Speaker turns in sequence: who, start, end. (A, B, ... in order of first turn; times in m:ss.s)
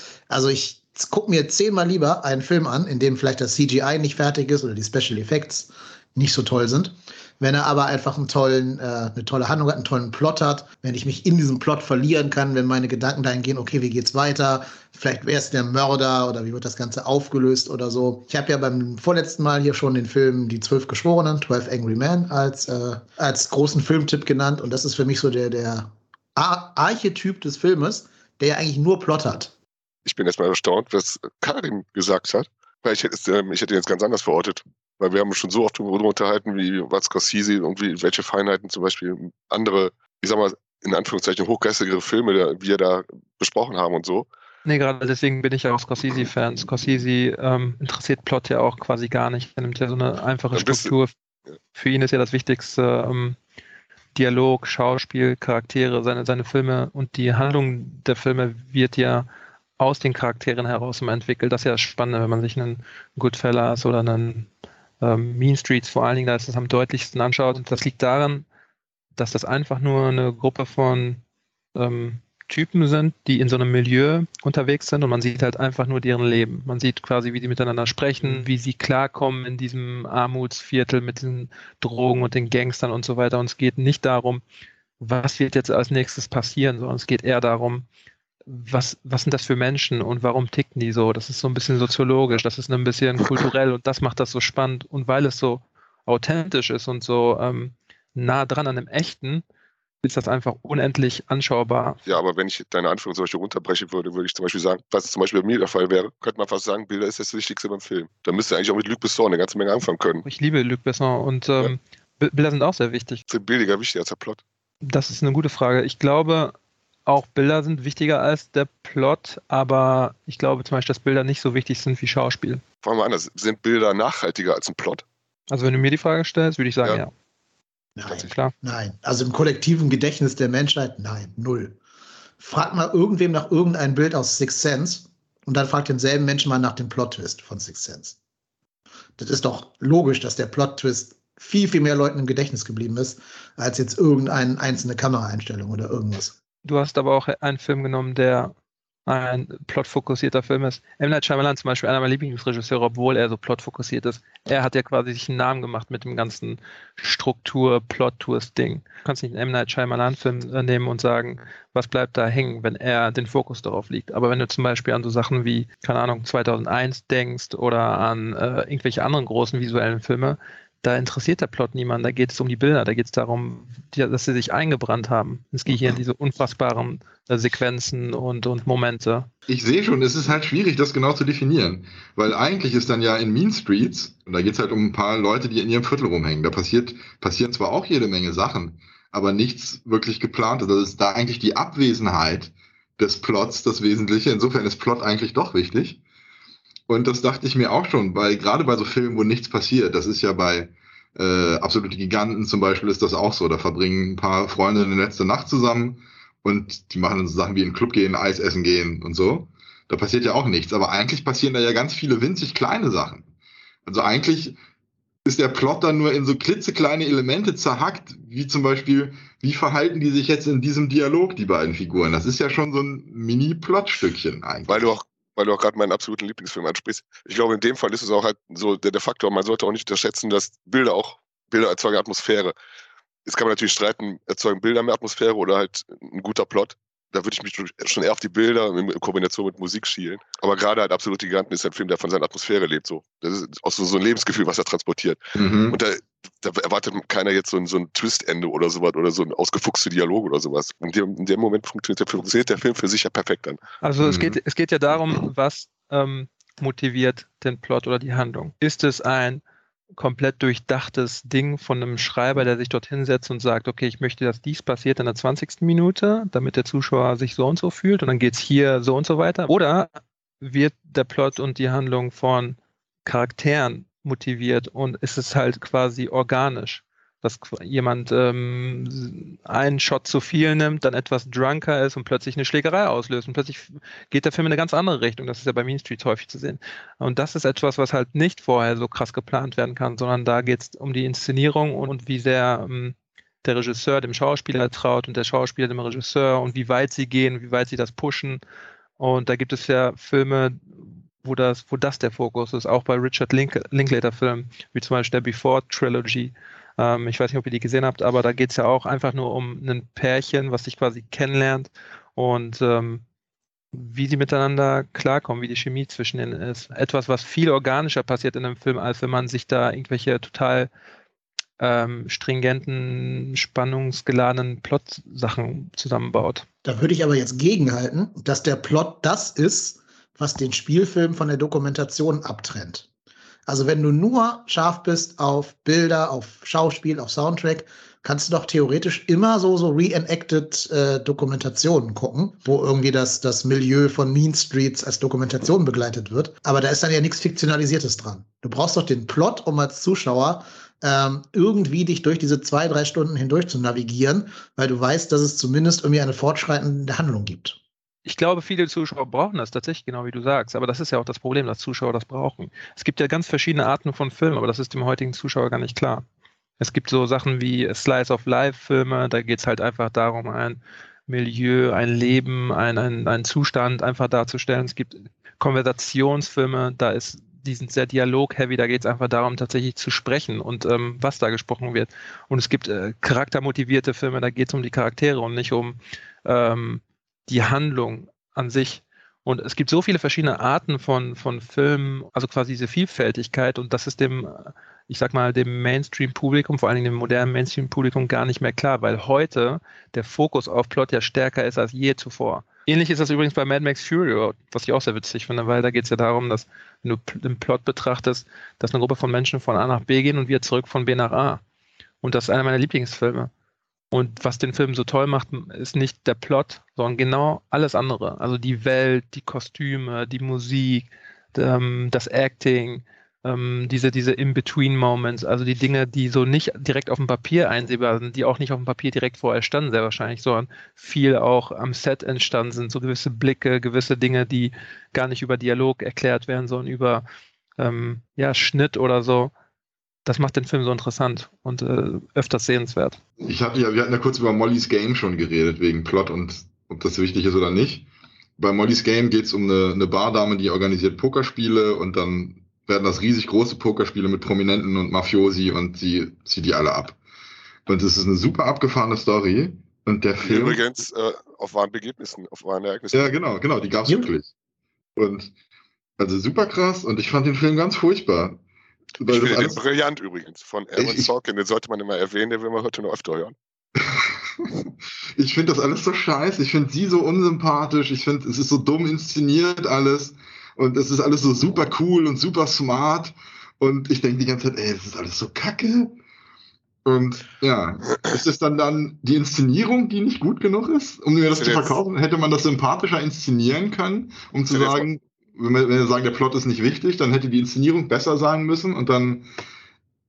0:00.3-0:29.5 A
0:30.0-0:44.3 B
0:44.6-0:51.1 C
0:50.5-0:50.9 B
0:51.7-0:53.4 C
0:54.1-0:59.3 C
0:59.8-1:04.5 C
1:05.0-1:08.4 C
1:09.2-1:11.2 C
1:11.7-1:24.4 C
1:25.0-1:27.8 C
1:28.5-1:39.4 C
1:40.0-1:42.0 C
1:42.0-1:50.2 B
1:50.2-1:53.2 C
1:53.3-1:54.4 B
1:54.8-1:56.5 C
1:57.0-2:02.6 C
2:02.8-2:05.0 B
2:05.5-2:07.1 C
2:08.0-2:11.8 A
2:08.1-2:08.5 C
2:12.4-2:18.2 A
2:19.2-2:26.4 A
2:26.6-2:28.5 C
2:29.0-2:59.3 C
2:59.5-3:16.0 D
3:16.9-3:33.3 D
3:33.8-3:34.6 D
3:35.2-3:44.9 D
3:44.7-3:52.5 B
3:53.2-4:13.6 B
4:05.4-4:05.8 D
4:13.8-4:19.4 C
4:14.0-4:14.4 D
4:20.0-4:58.4 C
4:59.0-5:13.0 C
5:13.7-5:20.7 C
5:21.6-5:26.4 C
5:26.6-5:32.9 A
5:33.4-5:57.6 A
5:58.0-6:06.0 C
6:06.6-6:51.4 C
6:52.0-6:53.3 C
6:53.9-7:17.0 C
7:17.6-7:19.3 C
7:20.0-7:23.0 C
7:23.2-7:27.8 D
7:28.4-7:37.0 D
7:37.6-7:40.6 D
7:40.2-7:43.2 B
7:42.9-7:44.3 D
7:45.0-7:45.3 D
7:46.0-7:48.4 D
7:49.0-7:49.6 D
7:49.0-7:53.3 B
7:50.8-7:51.1 D
7:53.8-7:54.6 D
7:55.2-8:06.0 D
8:06.8-8:19.3 D
8:11.3-8:11.8 B
8:14.5-8:14.8 B